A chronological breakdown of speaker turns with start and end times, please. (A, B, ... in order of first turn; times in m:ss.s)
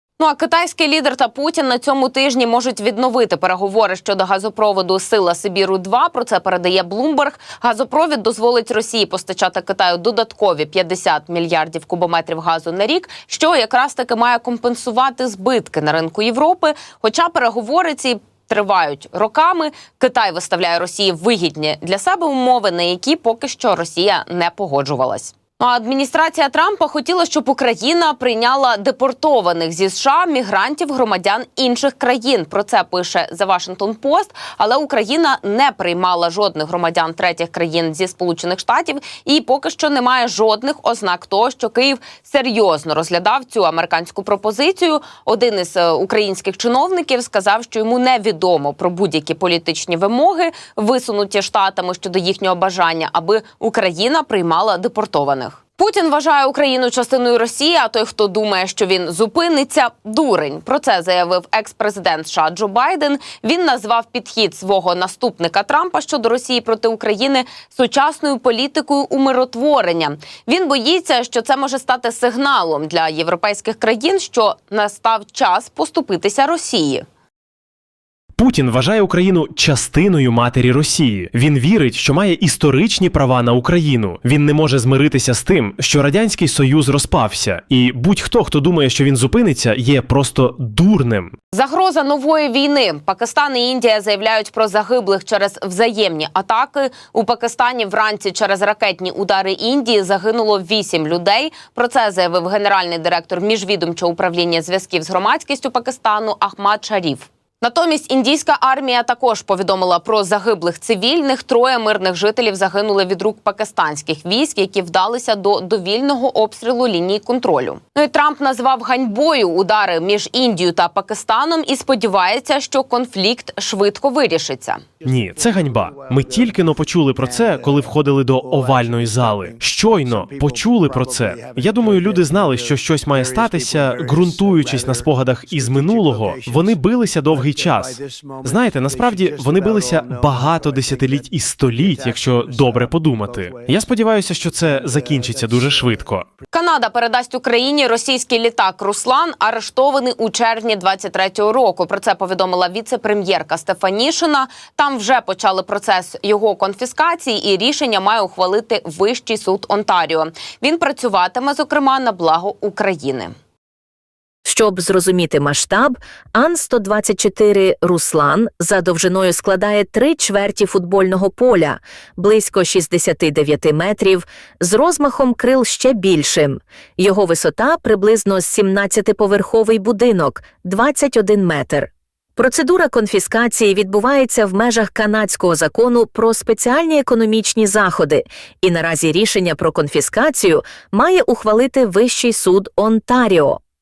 0:00.2-1:17.0 A
1:18.4-1:31.3 B
1:31.5-2:04.8 A
2:05.0-2:21.3 C
2:05.0-2:26.3 B
2:21.8-2:23.7 C
2:24.7-2:26.1 C
2:26.5-2:43.3 A
2:44.4-3:13.6 C